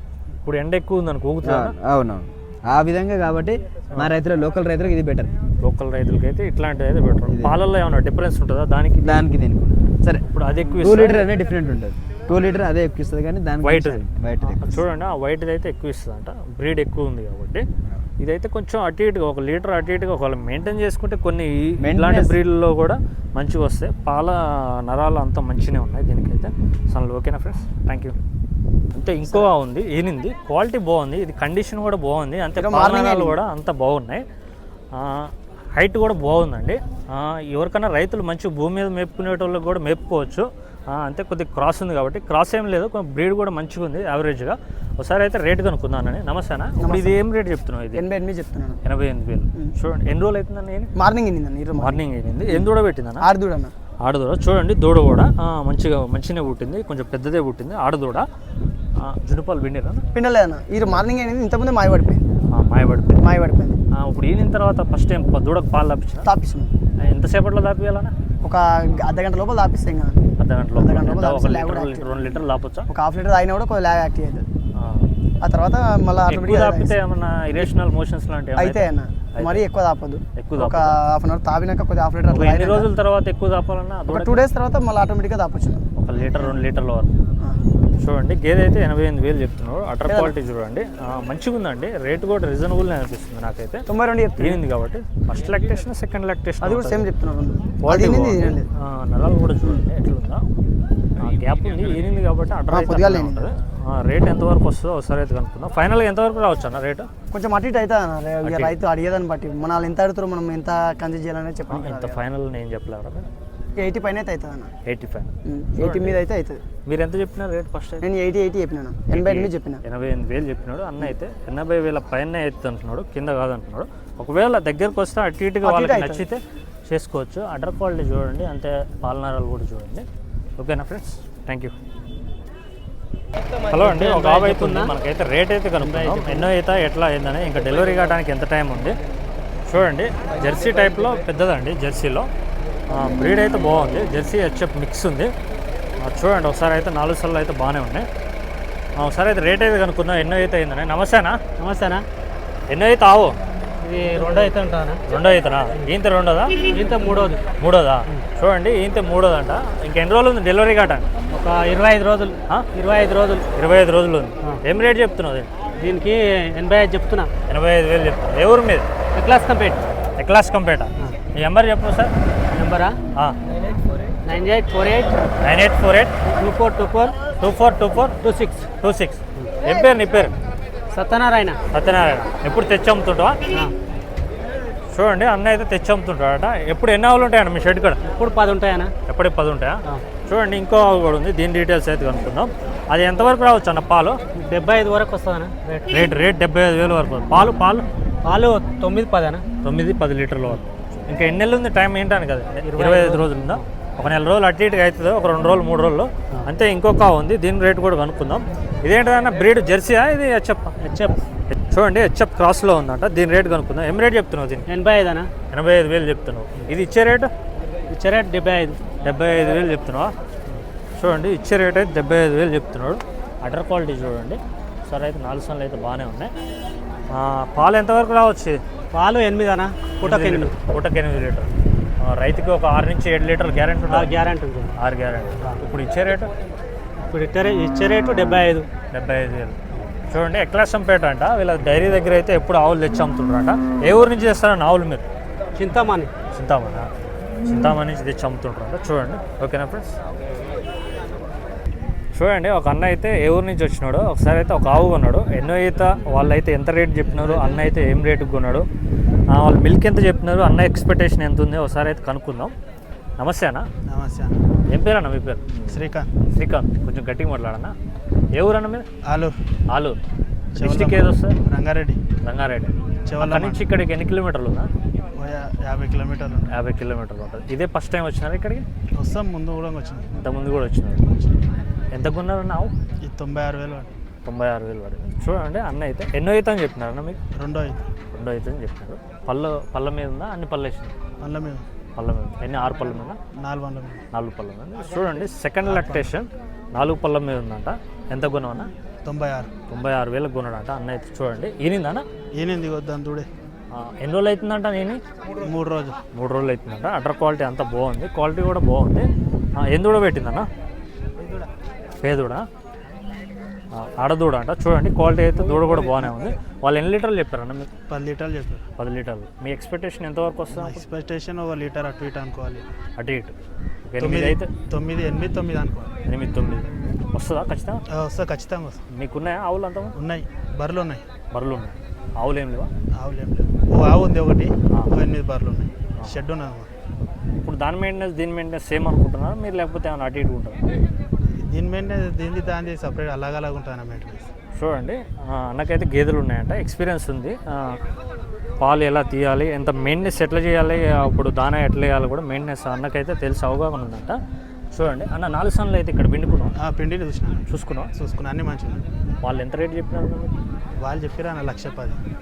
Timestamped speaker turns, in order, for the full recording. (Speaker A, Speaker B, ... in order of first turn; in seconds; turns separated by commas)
Speaker A: 0.4-1.7, Speaker B: 1.4-5.3, Speaker A: 5.6-9.2, Speaker B: 7.2-7.6, Speaker B: 9.0-10.2, Speaker A: 10.3-11.3, Speaker B: 10.8-14.8, Speaker A: 13.6-17.6, Speaker A: 18.2-28.1, Speaker B: 21.8-22.4, Speaker A: 28.9-34.2, Speaker C: 32.5-33.4, Speaker A: 34.9-48.0, Speaker C: 46.8-47.2, Speaker C: 47.9-48.8, Speaker A: 48.8-50.9, Speaker C: 51.0-53.7, Speaker A: 51.8-53.3, Speaker A: 54.0-58.2, Speaker A: 59.0-60.0, Speaker C: 60.1-62.2, Speaker A: 62.5-63.3, Speaker C: 63.2-63.8, Speaker A: 63.9-66.3, Speaker C: 66.2-66.7, Speaker A: 67.0-68.1, Speaker C: 68.4-70.2, Speaker A: 70.4-72.9, Speaker C: 70.7-72.2, Speaker C: 72.9-74.5, Speaker A: 74.7-75.1, Speaker C: 75.4-77.0, Speaker A: 76.3-79.6, Speaker C: 78.5-82.9, Speaker A: 80.4-80.9, Speaker A: 82.3-84.4, Speaker C: 84.1-86.6, Speaker A: 86.0-87.1, Speaker A: 88.0-93.9, Speaker C: 90.0-90.3, Speaker C: 93.9-94.6, Speaker A: 94.4-97.1, Speaker C: 96.6-98.7, Speaker A: 97.8-100.5, Speaker A: 101.2-107.1, Speaker C: 102.7-103.4, Speaker C: 107.3-112.2, Speaker A: 108.4-108.8, Speaker A: 111.7-113.3, Speaker C: 113.8-114.7, Speaker A: 114.8-116.2, Speaker C: 115.4-116.6, Speaker A: 116.8-118.0, Speaker C: 118.0-119.8, Speaker A: 119.1-130.0, Speaker C: 125.6-126.2, Speaker A: 130.6-131.7, Speaker A: 133.7-138.9, Speaker D: 133.8-134.9, Speaker D: 135.8-136.4, Speaker A: 139.7-142.3, Speaker A: 142.9-145.3, Speaker A: 146.0-148.1, Speaker A: 149.0-151.4, Speaker D: 151.6-152.0, Speaker A: 152.7-153.3, Speaker D: 153.8-155.0, Speaker A: 155.1-156.7, Speaker D: 156.7-157.4, Speaker A: 157.6-161.1, Speaker D: 161.3-163.4, Speaker A: 163.5-165.5, Speaker D: 165.8-167.3, Speaker A: 167.5-168.9, Speaker D: 169.2-169.8, Speaker A: 170.2-172.1, Speaker D: 172.5-173.0, Speaker D: 174.2-175.2, Speaker A: 175.4-176.1, Speaker D: 176.3-177.2, Speaker A: 177.4-178.2, Speaker D: 178.2-178.6, Speaker A: 178.8-180.3, Speaker D: 180.9-181.6, Speaker A: 181.7-183.4, Speaker A: 184.9-188.0, Speaker D: 188.0-188.9, Speaker A: 189.1-194.2, Speaker D: 194.4-195.8, Speaker A: 195.9-197.8, Speaker D: 198.2-199.4, Speaker A: 199.6-210.7, Speaker D: 202.7-203.2, Speaker D: 210.8-211.2, Speaker A: 211.5-214.6, Speaker D: 214.7-215.3, Speaker A: 215.5-217.3, Speaker D: 217.9-218.8, Speaker A: 219.0-220.1, Speaker A: 220.9-226.3, Speaker A: 227.1-228.6, Speaker D: 228.9-230.5, Speaker A: 230.0-234.1, Speaker D: 233.9-234.7, Speaker A: 234.8-236.3, Speaker D: 237.1-238.7, Speaker A: 238.9-245.0, Speaker D: 245.6-246.1, Speaker A: 246.3-246.9, Speaker A: 247.4-249.9, Speaker A: 252.1-258.6, Speaker E: 257.2-257.5, Speaker A: 259.3-262.5, Speaker A: 263.2-263.7, Speaker E: 263.9-264.4, Speaker A: 264.7-265.7, Speaker E: 265.7-266.1, Speaker A: 266.3-267.7, Speaker A: 268.3-268.9, Speaker E: 269.0-269.4, Speaker A: 269.7-270.0, Speaker E: 270.5-272.0, Speaker A: 270.6-271.4, Speaker A: 272.2-274.7, Speaker E: 273.1-273.6, Speaker E: 275.1-276.5, Speaker A: 276.5-278.6, Speaker E: 278.9-280.1, Speaker A: 280.1-281.0, Speaker E: 281.1-281.4, Speaker A: 281.9-282.7, Speaker E: 283.0-283.9, Speaker A: 284.2-287.2, Speaker E: 287.3-287.9, Speaker A: 288.1-290.9, Speaker E: 291.2-291.6, Speaker A: 291.9-293.2, Speaker E: 293.4-294.0, Speaker A: 294.1-298.7, Speaker E: 295.6-296.1, Speaker E: 299.0-299.5, Speaker A: 299.7-302.1, Speaker E: 302.4-303.3, Speaker A: 303.7-305.0, Speaker E: 305.4-306.0, Speaker A: 306.1-310.5, Speaker A: 312.0-312.5, Speaker A: 313.7-317.7, Speaker E: 315.5-316.1, Speaker E: 317.9-318.6, Speaker A: 318.8-320.8, Speaker E: 320.5-322.6, Speaker A: 323.0-323.3, Speaker A: 323.9-324.5, Speaker E: 324.0-325.9, Speaker A: 326.0-327.8, Speaker E: 327.9-328.8, Speaker A: 328.9-329.9, Speaker E: 329.9-331.0, Speaker A: 331.3-332.7, Speaker E: 332.9-336.7, Speaker A: 337.3-340.6, Speaker E: 341.4-344.3, Speaker A: 344.5-347.8, Speaker A: 348.6-354.2, Speaker A: 354.7-356.5, Speaker E: 356.6-357.4, Speaker A: 357.5-357.9, Speaker E: 357.9-358.8, Speaker A: 359.2-360.3, Speaker E: 360.8-362.0